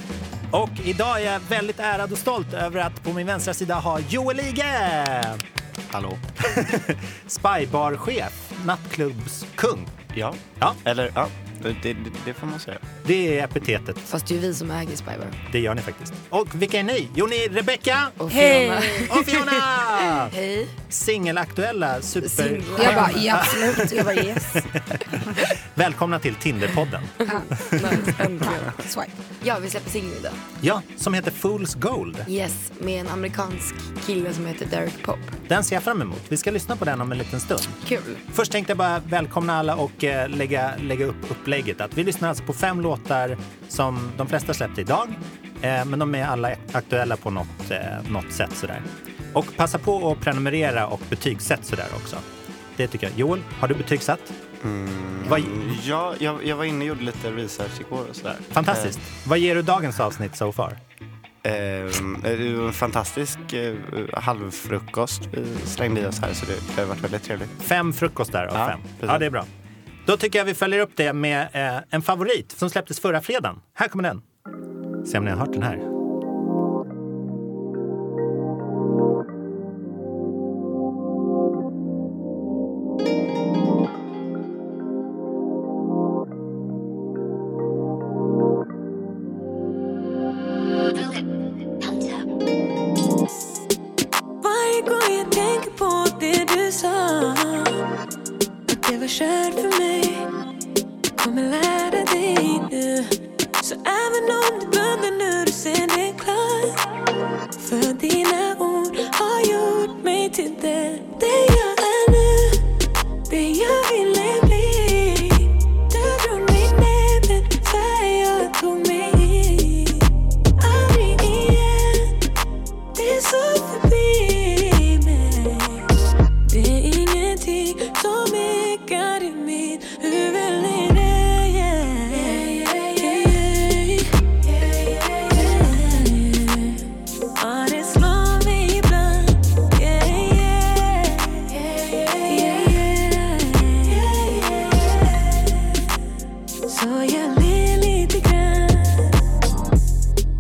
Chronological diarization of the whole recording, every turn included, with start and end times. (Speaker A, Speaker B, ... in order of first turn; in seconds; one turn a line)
Speaker A: 0.5-5.4
Speaker B: 5.9-6.2
Speaker A: 6.4-10.0
Speaker B: 10.1-12.8
Speaker A: 13.0-14.1
Speaker C: 14.1-15.4
Speaker A: 15.5-18.2
Speaker C: 18.2-20.7
Speaker D: 18.3-19.2
Speaker A: 19.1-20.3
Speaker A: 20.9-27.9
Speaker C: 22.2-24.3
Speaker D: 22.8-24.6
Speaker C: 27.2-28.8
Speaker D: 27.3-29.1
Speaker C: 29.4-30.4
Speaker A: 30.6-32.3
Speaker C: 32.3-35.4
Speaker A: 35.5-37.8
Speaker C: 37.8-38.2
Speaker A: 38.3-52.2
Speaker A: 52.8-54.3
Speaker B: 54.6-59.0
Speaker A: 55.2-55.8
Speaker A: 58.5-60.8
Speaker B: 61.4-67.5
Speaker A: 67.6-69.5
Speaker B: 68.5-69.3
Speaker A: 70.1-74.2
Speaker A: 75.0-75.8
Speaker E: 94.4-97.8
Speaker E: 98.7-100.3
Speaker E: 101.2-106.8
Speaker E: 107.6-112.6
Speaker E: 113.3-122.2
Speaker E: 123.0-125.9
Speaker E: 126.5-136.8
Speaker E: 137.4-145.5
Speaker E: 146.7-149.2